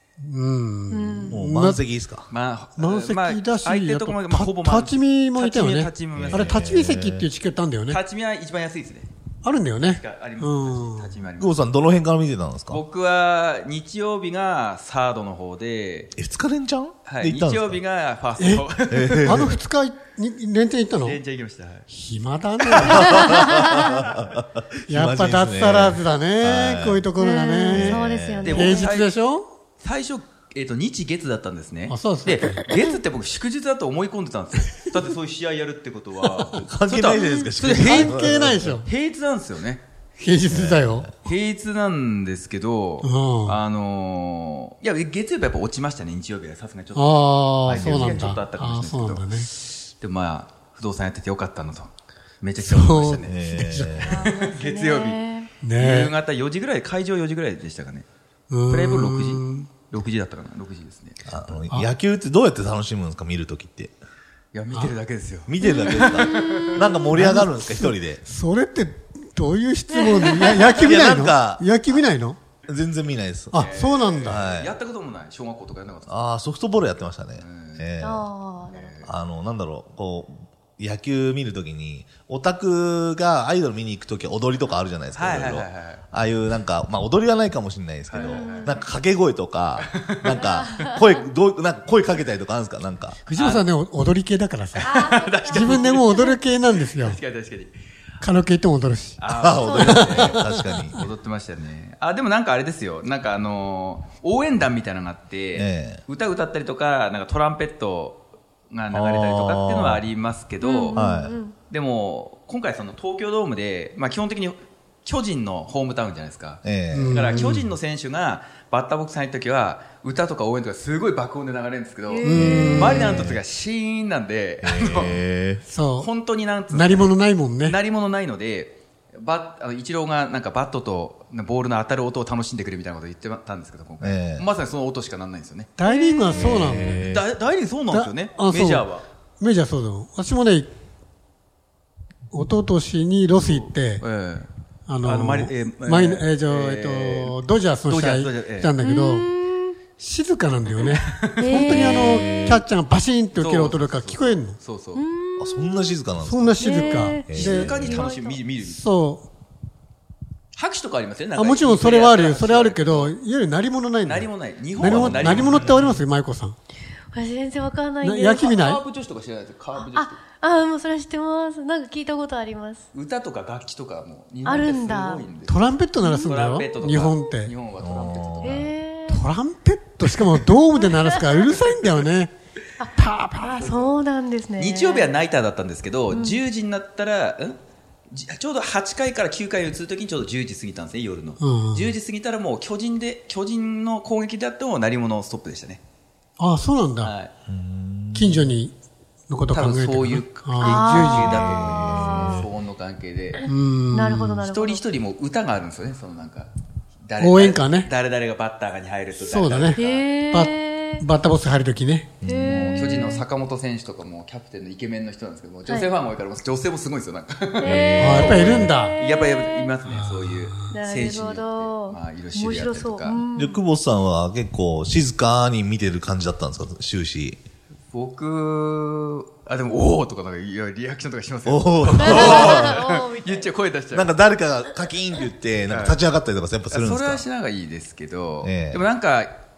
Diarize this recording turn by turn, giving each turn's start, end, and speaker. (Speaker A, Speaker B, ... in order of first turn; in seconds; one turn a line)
Speaker A: 0.2-1.8
Speaker B: 0.9-1.4
Speaker C: 1.3-2.3
Speaker D: 2.3-6.7
Speaker A: 2.8-8.0
Speaker C: 6.1-7.3
Speaker D: 7.9-9.1
Speaker A: 9.4-11.1
Speaker D: 9.8-11.7
Speaker C: 11.4-12.8
Speaker D: 12.7-16.1
Speaker C: 16.1-17.8
Speaker D: 17.0-19.5
Speaker A: 18.4-18.7
Speaker C: 18.9-19.6
Speaker A: 19.2-21.2
Speaker D: 21.0-21.9
Speaker A: 21.9-23.6
Speaker C: 22.9-27.1
Speaker A: 24.9-29.5
Speaker B: 27.2-28.9
Speaker C: 27.7-28.6
Speaker D: 28.4-29.1
Speaker D: 29.8-39.8
Speaker A: 31.9-32.6
Speaker C: 36.5-38.8
Speaker A: 37.6-38.9
Speaker A: 40.2-41.1
Speaker C: 40.5-41.1
Speaker D: 41.2-49.5
Speaker A: 43.0-43.6
Speaker A: 46.9-49.5
Speaker D: 50.0-53.3
Speaker A: 52.6-54.1
Speaker C: 53.2-54.3
Speaker B: 54.0-55.5
Speaker D: 54.0-55.2
Speaker A: 55.6-56.1
Speaker D: 55.8-58.1
Speaker A: 58.5-59.7
Speaker D: 58.7-61.5
Speaker C: 61.2-63.9
Speaker D: 64.5-67.0
Speaker C: 65.5-68.2
Speaker B: 65.6-66.7
Speaker A: 67.1-72.4
Speaker B: 70.2-70.6
Speaker C: 70.6-71.7
Speaker C: 72.7-73.7
Speaker A: 73.5-74.5
Speaker D: 73.5-76.2
Speaker C: 74.2-74.7
Speaker C: 76.1-78.3
Speaker D: 77.3-77.9
Speaker B: 78.0-79.1
Speaker D: 78.7-79.1
Speaker C: 79.0-93.2
Speaker D: 85.1-86.0
Speaker D: 88.1-88.8
Speaker B: 88.2-88.8
Speaker D: 89.8-90.8
Speaker B: 90.4-91.0
Speaker A: 93.2-94.9
Speaker D: 93.3-93.7
Speaker D: 94.8-96.2
Speaker B: 94.8-96.4
Speaker A: 95.5-97.2
Speaker D: 96.9-97.7
Speaker A: 98.2-99.2
Speaker D: 99.2-100.4
Speaker C: 99.3-101.0
Speaker B: 99.6-100.2
Speaker A: 99.8-101.0
Speaker D: 100.9-111.0
Speaker C: 105.5-106.0
Speaker C: 108.9-110.0
Speaker B: 110.6-111.5
Speaker C: 110.9-111.4
Speaker D: 111.7-125.2
Speaker C: 116.6-117.4
Speaker A: 116.9-117.6
Speaker B: 122.1-123.0
Speaker A: 122.2-123.0
Speaker C: 122.3-123.4
Speaker C: 124.6-125.6
Speaker A: 125.7-126.1
Speaker D: 126.0-135.7
Speaker A: 126.7-127.8
Speaker C: 134.0-134.4
Speaker A: 135.8-137.1
Speaker C: 136.3-137.2
Speaker D: 136.3-139.1
Speaker A: 137.9-138.9
Speaker A: 139.4-140.7
Speaker A: 142.3-144.0
Speaker D: 143.3-144.5
Speaker A: 144.9-149.3
Speaker D: 145.0-148.7
Speaker B: 148.8-149.8
Speaker A: 150.0-154.6
Speaker D: 150.8-151.5
Speaker B: 151.4-151.9
Speaker C: 151.5-152.6
Speaker D: 153.3-155.0
Speaker B: 154.9-155.9
Speaker C: 155.4-158.1
Speaker A: 156.2-157.7
Speaker B: 156.6-158.4
Speaker D: 157.3-158.8
Speaker A: 158.6-159.3
Speaker D: 160.5-163.1
Speaker A: 161.3-166.6
Speaker D: 164.0-166.0
Speaker C: 164.8-165.8
Speaker B: 167.1-168.5
Speaker A: 168.0-168.8
Speaker D: 168.4-170.2
Speaker B: 169.7-172.9
Speaker D: 172.9-178.7
Speaker B: 174.4-175.2
Speaker A: 175.5-177.5
Speaker C: 177.8-178.7
Speaker B: 178.4-179.2
Speaker A: 179.1-183.8
Speaker B: 181.0-181.5
Speaker B: 182.8-185.2
Speaker D: 184.6-187.6
Speaker B: 186.1-186.4
Speaker D: 188.1-195.8
Speaker A: 191.4-191.9
Speaker A: 196.4-197.1
Speaker D: 197.0-197.3
Speaker C: 197.5-198.5
Speaker A: 198.1-198.7
Speaker A: 199.3-201.5
Speaker D: 199.5-203.5
Speaker B: 200.6-202.4
Speaker C: 201.3-202.5
Speaker A: 203.4-204.4
Speaker B: 203.9-204.8
Speaker D: 204.4-206.5
Speaker D: 207.0-210.1
Speaker A: 207.2-207.9
Speaker A: 209.2-209.8
Speaker B: 209.7-211.1
Speaker A: 210.3-212.2
Speaker C: 212.2-212.8
Speaker B: 212.2-213.2
Speaker D: 212.4-223.2
Speaker B: 217.6-219.7
Speaker C: 217.6-218.7
Speaker A: 218.0-218.9
Speaker A: 219.9-220.7
Speaker B: 220.7-223.6
Speaker C: 223.3-227.4
Speaker D: 227.9-234.1
Speaker C: 231.4-232.8
Speaker B: 232.0-233.5
Speaker C: 233.9-237.2
Speaker D: 235.7-236.0
Speaker D: 236.7-239.3
Speaker C: 238.4-238.8